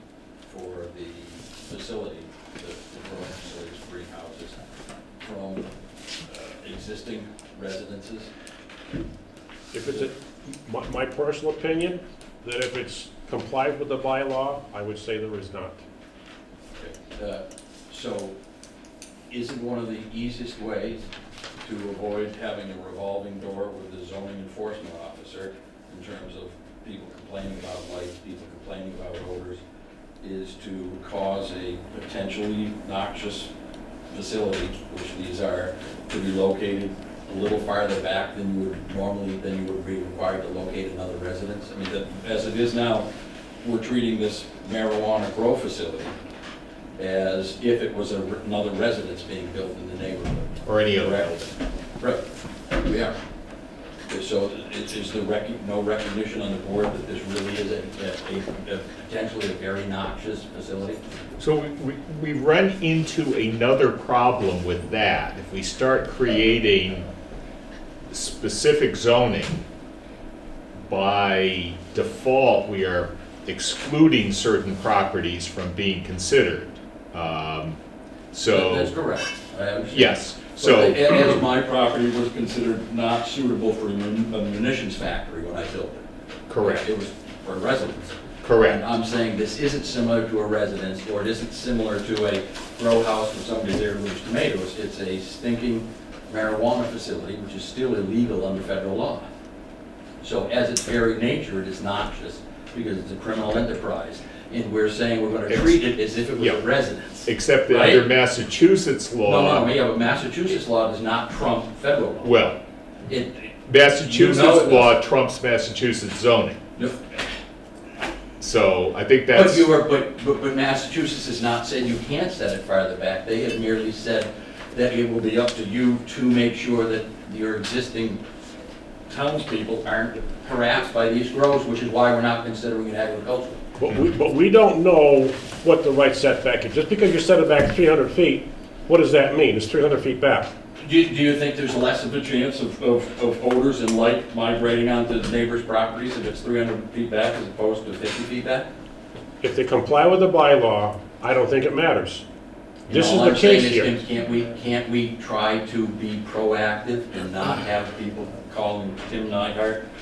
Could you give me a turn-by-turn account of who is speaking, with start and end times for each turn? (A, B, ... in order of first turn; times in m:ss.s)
0:00.4-0:04.6 A
0:05.2-0:05.7 A
0:06.3-0:08.3 A
0:09.7-0:15.8 B
0:16.8-0:18.3 A
0:19.3-0:21.1 A
0:21.6-0:29.6 A
0:30.2-0:33.5 A
0:34.1-0:43.1 A
0:43.6-0:46.1 A
0:46.9-0:52.2 A
0:50.6-0:51.3 C
0:52.8-0:53.2 A
0:54.1-1:01.0 A
1:01.4-1:07.0 C
1:08.1-1:09.6 C
1:10.8-1:17.8 C
1:18.3-1:18.9 C
1:18.5-1:26.1 A
1:19.9-1:21.4 C
1:26.5-1:26.9 C
1:26.6-1:39.3 A
1:28.4-1:28.8 C
1:40.2-1:48.0 A
1:45.5-1:46.6 C
1:47.2-1:49.7 C
1:49.2-1:52.4 A
1:52.2-1:52.6 C
1:53.1-1:55.0 A
1:53.7-1:56.6 C
1:56.8-1:57.2 A
1:58.4-1:59.7 C
1:59.3-2:08.2 A
2:09.1-2:13.6 A
2:13.8-2:20.5 B
2:20.8-2:28.7 A
2:29.4-2:32.2 B
2:32.9-2:39.8 A
2:32.9-2:34.0 B